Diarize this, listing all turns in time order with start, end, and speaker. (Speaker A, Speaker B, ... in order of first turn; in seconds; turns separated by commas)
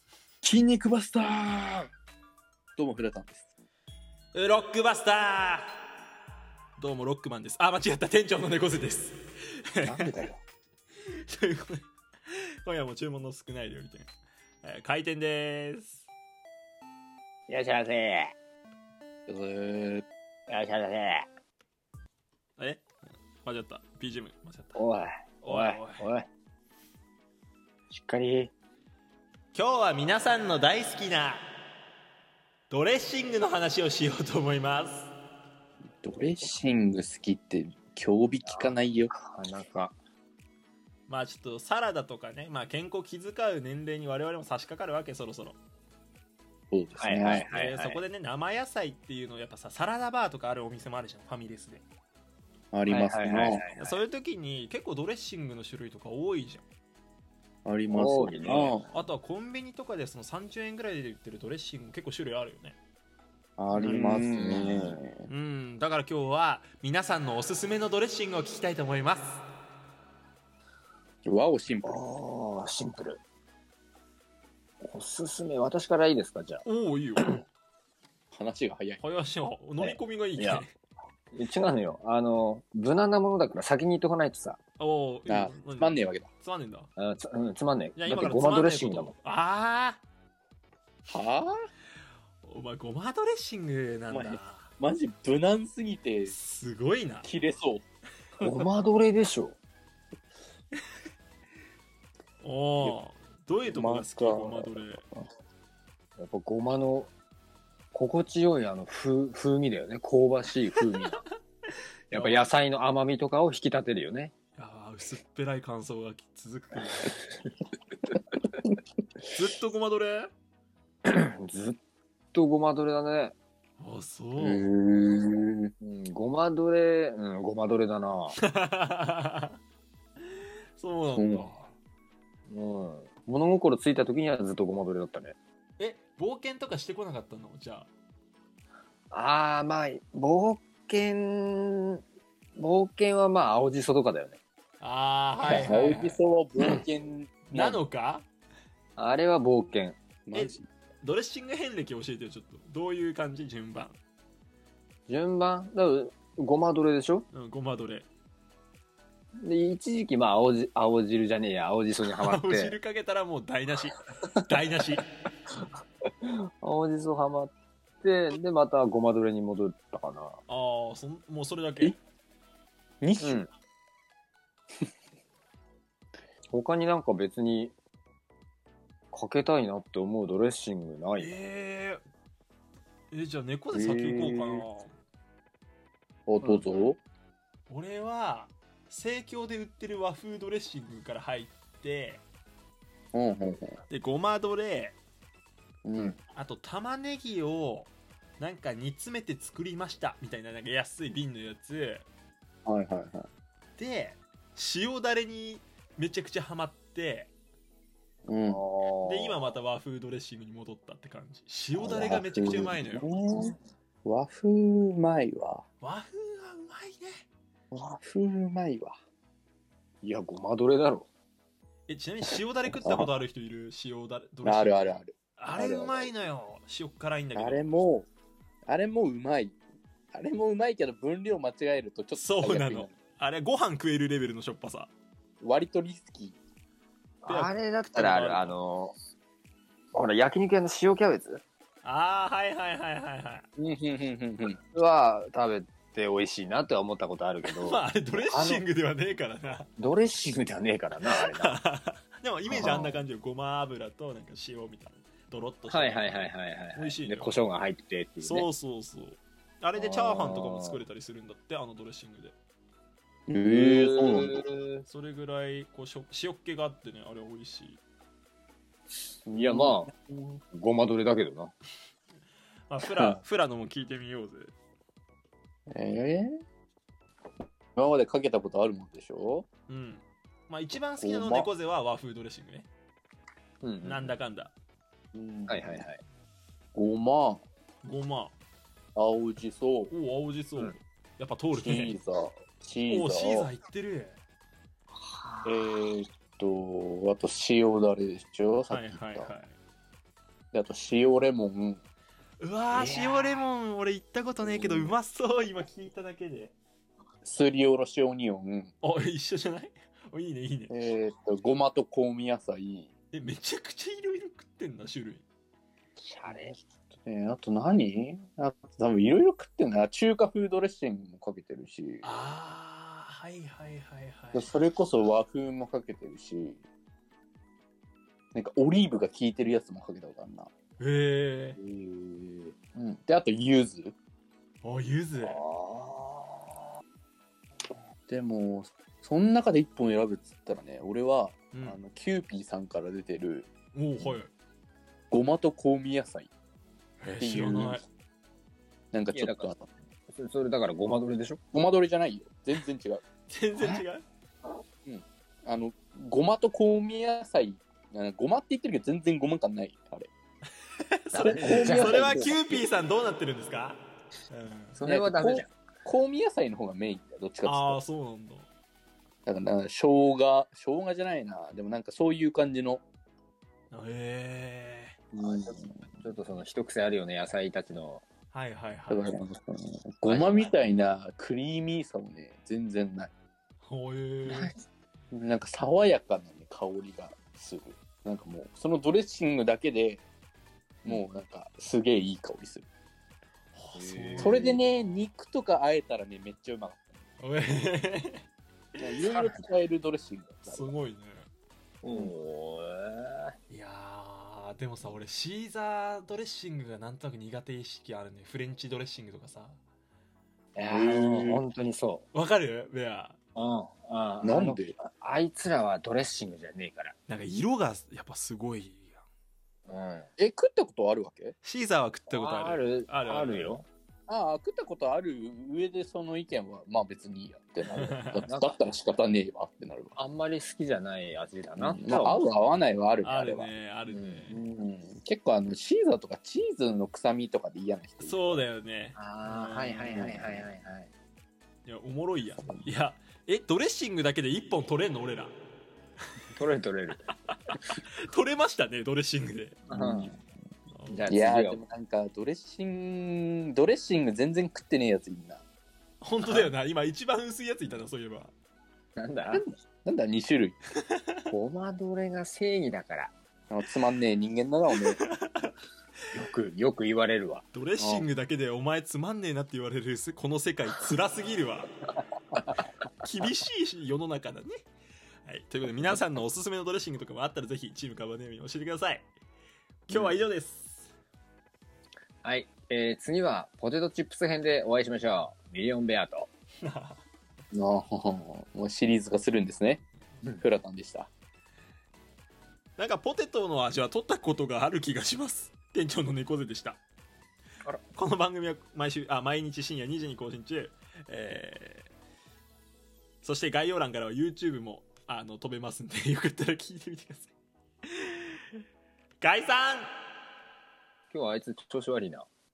Speaker A: 0.4-1.9, Speaker A: 2.8-3.5, Speaker B: 4.3-5.7, Speaker B: 6.8-10.1, Speaker C: 9.8-10.4, Speaker B: 11.0-14.1, Speaker B: 14.6-16.1, Speaker C: 17.5-18.3, Speaker A: 19.3-20.1, Speaker C: 20.5-21.3, Speaker B: 22.6-22.8, Speaker B: 23.4-24.8, Speaker C: 24.7-26.3, Speaker B: 25.4-26.1, Speaker C: 27.9-28.5, Speaker B: 29.5-31.5, Speaker B: 32.7-35.1, Speaker A: 36.0-39.1, Speaker C: 38.5-40.0, Speaker B: 41.1-45.6, Speaker A: 46.7-47.5, Speaker C: 47.0-48.0, Speaker B: 47.3-51.8, Speaker A: 52.7-53.6, Speaker C: 52.9-54.0, Speaker B: 53.4-56.6, Speaker A: 57.6-59.0, Speaker C: 57.9-58.7, Speaker B: 58.9-62.8, Speaker A: 63.6-65.3, Speaker B: 63.8-64.2, Speaker C: 63.8-65.0, Speaker B: 65.3-69.4, Speaker A: 71.2-72.0, Speaker C: 71.8-73.2, Speaker C: 74.8-76.6, Speaker B: 76.6-77.4, Speaker A: 78.3-79.0, Speaker B: 79.0-80.7, Speaker C: 79.8-80.7, Speaker C: 81.3-84.6, Speaker B: 84.8-86.9, Speaker A: 85.3-86.3, Speaker C: 87.0-89.1, Speaker B: 88.0-90.0, Speaker A: 91.1-91.5, Speaker B: 92.4-94.7, Speaker A: 94.1-96.3, Speaker B: 96.3-97.3, Speaker A: 97.2-97.8, Speaker C: 98.4-99.6, Speaker B: 102.4-105.0, Speaker A: 103.7-105.2, Speaker C: 106.2-107.1, Speaker C: 107.9-111.2, Speaker B: 112.1-112.5, Speaker C: 112.1-114.3, Speaker B: 114.6-117.2, Speaker B: 119.3-120.3, Speaker C: 121.1-121.8, Speaker C: 122.3-123.3, Speaker B: 123.8-124.7, Speaker A: 124.4-125.7, Speaker C: 125.8-128.4, Speaker B: 128.4-129.6, Speaker B: 130.8-131.7, Speaker A: 131.1-131.5, Speaker C: 132.5-135.3, Speaker B: 135.8-137.9, Speaker C: 139.1-142.0, Speaker C: 142.6-144.4, Speaker B: 144.8-146.2, Speaker C: 145.4-145.7, Speaker A: 145.4-147.8, Speaker B: 147.5-148.2, Speaker C: 149.0-150.0, Speaker A: 150.3-150.7, Speaker B: 150.3-154.0, Speaker C: 155.1-157.3, Speaker B: 157.3-158.1, Speaker C: 159.4-162.8, Speaker B: 162.1-165.0, Speaker C: 166.2-170.4, Speaker B: 170.5-172.0, Speaker A: 173.0-173.4, Speaker C: 173.2-173.5, Speaker C: 176.5-177.7, Speaker C: 179.1-181.4, Speaker B: 181.2-182.0, Speaker B: 183.1-184.9, Speaker A: 183.7-184.7, Speaker A: 186.3-187.0, Speaker C: 186.4-186.8, Speaker B: 187.7-192.2, Speaker A: 193.1-193.8, Speaker B: 193.9-195.0, Speaker A: 195.8-196.2, Speaker B: 196.3-202.1, Speaker A: 202.7-203.3, Speaker B: 203.8-207.3, Speaker A: 208.2-208.6, Speaker C: 208.5-209.5, Speaker B: 209.0-213.1, Speaker A: 211.8-213.5, Speaker A: 214.0-215.6, Speaker B: 215.8-217.2, Speaker A: 217.7-219.0, Speaker C: 220.0-221.1, Speaker B: 221.9-227.8, Speaker A: 222.7-223.1, Speaker A: 224.4-226.1, Speaker A: 227.3-228.1, Speaker A: 228.7-229.6, Speaker A: 230.1-232.9, Speaker B: 232.1-234.9, Speaker A: 235.4-236.4, Speaker C: 237.2-238.9, Speaker B: 237.2-238.6, Speaker C: 239.9-241.4, Speaker B: 241.8-243.4, Speaker A: 243.6-244.6, Speaker C: 244.7-248.6, Speaker B: 247.4-249.7, Speaker C: 249.8-251.6, Speaker B: 251.1-257.4, Speaker C: 252.5-253.0, Speaker C: 255.7-258.5, Speaker B: 258.2-262.3, Speaker C: 259.8-260.8, Speaker A: 263.3-264.4, Speaker C: 263.5-264.8, Speaker B: 264.9-267.8, Speaker A: 269.2-270.4, Speaker C: 269.3-269.9, Speaker C: 270.5-271.5, Speaker B: 272.7-274.5, Speaker A: 272.9-273.2, Speaker A: 275.7-276.4, Speaker A: 277.8-279.5, Speaker B: 279.7-282.7, Speaker A: 281.0-281.5, Speaker C: 283.6-284.1, Speaker B: 283.8-284.5, Speaker A: 285.1-285.8, Speaker C: 285.5-286.0, Speaker A: 286.7-287.4, Speaker B: 287.8-288.4, Speaker A: 288.9-289.9, Speaker B: 289.9-291.9, Speaker A: 291.6-293.5, Speaker B: 292.9-294.2, Speaker C: 294.9-295.8, Speaker A: 295.4-299.3, Speaker B: 298.7-299.6, Speaker A: 300.5-301.8, Speaker B: 302.4-306.6, Speaker C: 302.7-303.4, Speaker A: 304.4-304.9, Speaker A: 307.2-308.7, Speaker B: 308.8-310.7, Speaker A: 310.7-312.9, Speaker B: 313.1-315.2, Speaker C: 316.0-316.6, Speaker A: 316.3-322.1, Speaker B: 322.0-324.5, Speaker A: 324.3-326.6, Speaker A: 328.3-330.5, Speaker B: 330.8-331.6, Speaker A: 331.6-333.9, Speaker B: 334.6-335.4, Speaker C: 335.2-336.5, Speaker A: 338.1-343.5, Speaker B: 341.5-341.8, Speaker B: 343.7-344.3, Speaker A: 345.1-346.3, Speaker B: 347.0-347.8, Speaker A: 347.2-347.8, Speaker A: 348.9-349.7, Speaker C: 349.1-349.5, Speaker C: 350.1-351.4, Speaker A: 351.5-353.0, Speaker B: 353.3-354.0, Speaker A: 354.9-360.1, Speaker B: 360.9-364.8, Speaker C: 361.1-362.5, Speaker A: 361.2-362.6, Speaker C: 364.8-365.5, Speaker A: 364.8-367.8, Speaker B: 367.4-368.5, Speaker A: 369.2-372.8, Speaker B: 373.7-375.0, Speaker A: 375.1-375.7, Speaker C: 375.4-378.1, Speaker B: 378.3-379.2, Speaker A: 378.9-383.1, Speaker B: 380.1-380.5, Speaker B: 383.6-384.5, Speaker C: 384.2-384.6, Speaker A: 385.1-390.0, Speaker A: 390.9-392.7, Speaker B: 393.5-394.7, Speaker C: 393.8-394.6, Speaker A: 394.2-397.0, Speaker B: 397.2-398.2, Speaker A: 398.8-400.7, Speaker B: 400.4-401.3, Speaker C: 401.8-403.3, Speaker B: 403.5-409.6, Speaker C: 410.6-412.1, Speaker A: 410.6-411.4, Speaker B: 412.1-413.2, Speaker C: 413.3-416.9, Speaker A: 414.2-414.8, Speaker B: 417.1-419.0, Speaker C: 419.7-420.1, Speaker A: 420.2-421.3, Speaker B: 421.4-423.6, Speaker C: 422.1-423.6, Speaker A: 424.1-430.0, Speaker B: 427.8-428.3, Speaker C: 428.3-428.6, Speaker C: 430.0-432.2, Speaker A: 431.6-433.5, Speaker B: 433.0-434.3, Speaker C: 433.9-434.4, Speaker A: 434.3-438.4, Speaker B: 438.0-440.1, Speaker C: 438.9-440.9, Speaker A: 439.9-440.4, Speaker B: 441.6-445.3, Speaker C: 446.3-447.1, Speaker B: 447.3-449.7, Speaker C: 449.7-450.2, Speaker A: 449.7-450.2, Speaker B: 450.7-451.1, Speaker C: 450.9-451.6, Speaker A: 451.1-455.4, Speaker B: 456.0-458.3, Speaker C: 459.0-459.4, Speaker A: 459.3-460.6, Speaker C: 461.3-463.1, Speaker A: 463.5-465.0, Speaker B: 464.8-465.5, Speaker C: 466.1-468.0, Speaker B: 467.5-471.7, Speaker B: 473.0-474.5, Speaker B: 475.2-479.1, Speaker B: 479.9-480.9, Speaker C: 482.2-486.3, Speaker B: 486.6-487.0, Speaker A: 487.5-489.8, Speaker A: 490.4-491.1, Speaker B: 492.8-496.8, Speaker B: 497.9-501.9, Speaker B: 503.2-507.3, Speaker B: 507.9-508.2, Speaker B: 509.2-509.9, Speaker C: 511.1-512.3